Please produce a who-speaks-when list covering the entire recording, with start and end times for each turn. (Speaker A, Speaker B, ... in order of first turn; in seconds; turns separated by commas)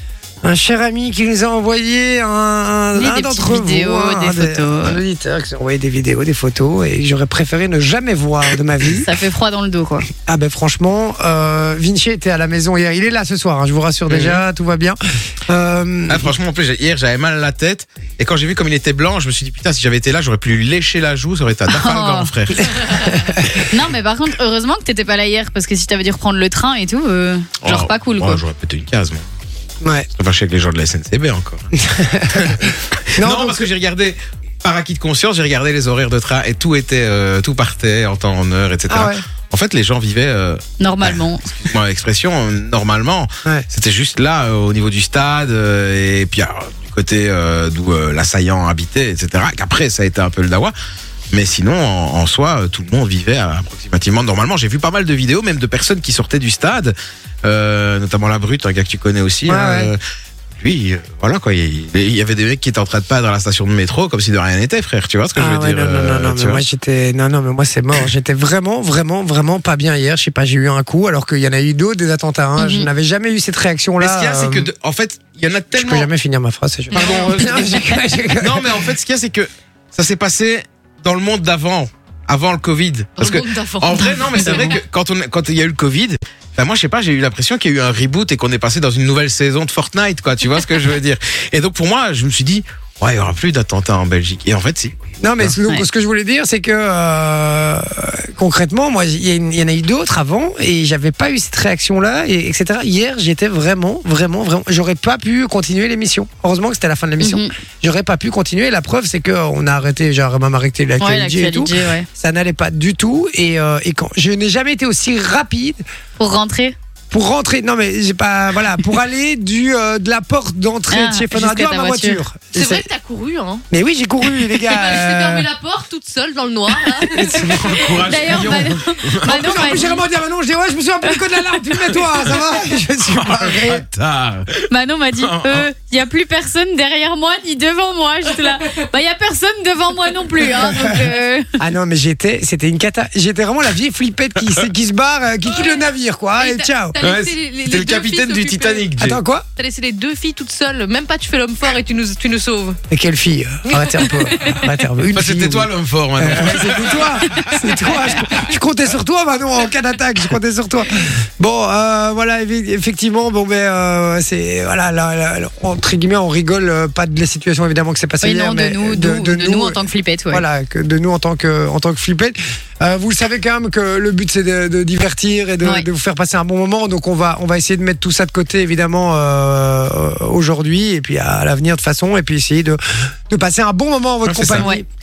Speaker A: 0.4-9.1, Speaker B: 3.0-5.0, Speaker B: 9.0-10.1, Speaker A: 10.2-16.3, Speaker C: 14.1-14.4, Speaker C: 16.1-23.1, Speaker B: 21.7-22.3, Speaker A: 22.6-23.6, Speaker B: 23.7-28.4, Speaker C: 27.6-29.2, Speaker A: 29.8-30.1, Speaker C: 30.1-31.7, Speaker A: 31.8-33.6, Speaker C: 32.3-50.7, Speaker A: 38.9-39.2, Speaker B: 40.8-41.4, Speaker C: 51.3-60.0, Speaker A: 59.5-59.9, Speaker C: 60.6-66.6, Speaker A: 65.3-74.7, Speaker B: 72.6-72.9, Speaker C: 74.0-76.1, Speaker A: 75.7-78.8, Speaker C: 76.9-95.5, Speaker D: 83.2-84.8, Speaker B: 84.0-84.7, Speaker A: 95.2-115.8, Speaker B: 107.2-107.5, Speaker B: 111.0-112.0, Speaker B: 116.2-116.8, Speaker A: 117.1-122.8, Speaker B: 120.9-122.2, Speaker D: 122.5-123.6, Speaker A: 123.7-125.5, Speaker D: 124.6-128.0, Speaker A: 127.0-133.8, Speaker C: 127.2-129.9, Speaker B: 128.0-130.0, Speaker B: 131.1-131.4, Speaker C: 133.0-134.6, Speaker B: 134.7-141.5, Speaker C: 135.2-135.7, Speaker A: 140.6-140.9, Speaker A: 141.6-147.0, Speaker D: 145.4-148.9, Speaker C: 147.0-149.2, Speaker A: 149.0-149.5, Speaker D: 149.6-152.8, Speaker A: 152.9-169.8, Speaker D: 153.7-154.6, Speaker C: 155.1-157.6, Speaker B: 168.2-170.4, Speaker A: 170.3-184.8, Speaker C: 184.3-184.7